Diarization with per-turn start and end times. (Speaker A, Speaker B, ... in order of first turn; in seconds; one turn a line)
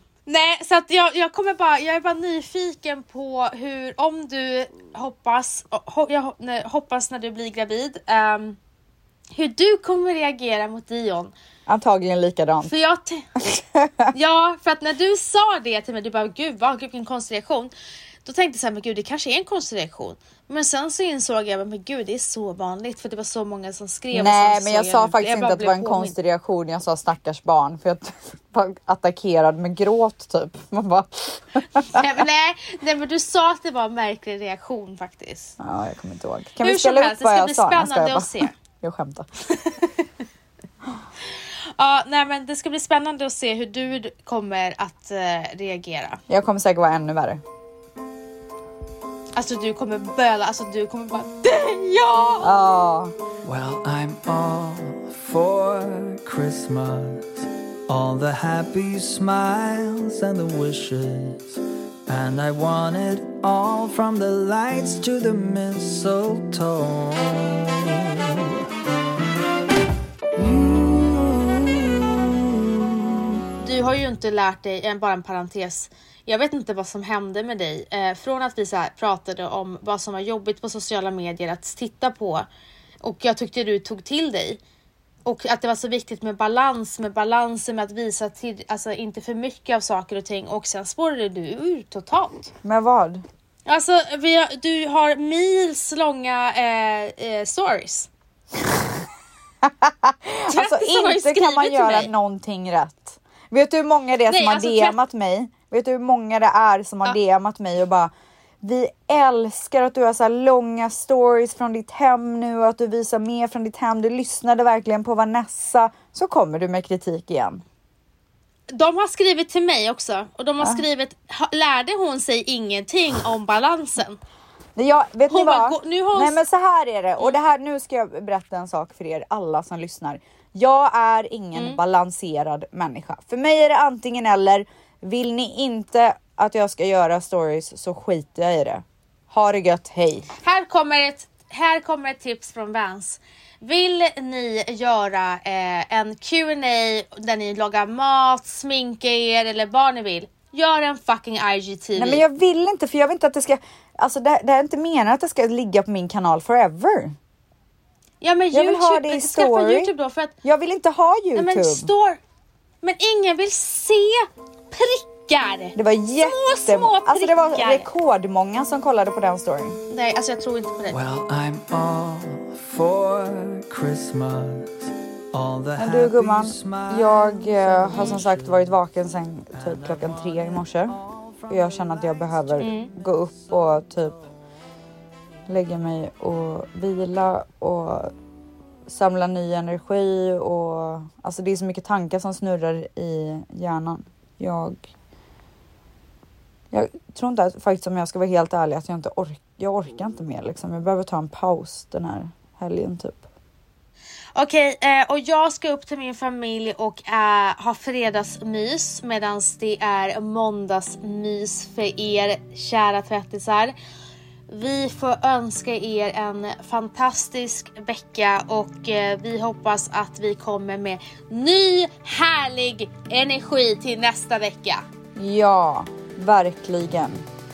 Speaker A: 0.3-8.6
Speaker A: 9.3-11.3
Speaker B: 11.7-12.7
Speaker A: 12.6-13.3
Speaker B: 13.5-14.1
Speaker A: 14.1-17.7
Speaker A: 18.2-26.1
Speaker B: 24.1-32.2
Speaker A: 31.9-35.6
Speaker B: 35.6-39.3
Speaker A: 36.6-38.5
Speaker A: 39.6-39.9
Speaker A: 41.8-46.2
Speaker B: 46.3-47.4
Speaker A: 49.4-52.5
Speaker B: 52.4-53.1
Speaker C: 53.4-68.6
Speaker B: 70.4-70.8
Speaker C: 70.9-71.2
Speaker A: 73.6-82.5
Speaker A: 83.0-84.6
Speaker A: 85.2-92.5
Speaker B: 92.6-93.2
Speaker A: 93.7-98.1
Speaker B: 99.6-108.1
Speaker A: 100.5-102.1
Speaker A: 104.3-105.0
Speaker B: 108.6-117.6
Speaker A: 118.7-124.2
Speaker B: 124.8-140.3
Speaker A: 125.3-126.4
Speaker A: 140.4-152.2
Speaker B: 152.0-157.2
Speaker A: 158.2-160.3
Speaker B: 158.5-159.9
Speaker B: 160.4-161.9
Speaker A: 161.3-162.2
Speaker A: 162.8-167.9
Speaker B: 165.8-169.8
Speaker A: 169.9-171.0
Speaker C: 170.9-178.8
Speaker B: 175.8-181.0
Speaker A: 177.9-178.2
Speaker C: 179.5-182.6
Speaker B: 181.5-184.2
Speaker A: 182.6-182.9
Speaker B: 185.5-188.1
Speaker B: 188.9-194.9
Speaker B: 196.7-203.2
Speaker A: 204.3-213.7
Speaker A: 214.5-224.8
Speaker B: 225.2-227.2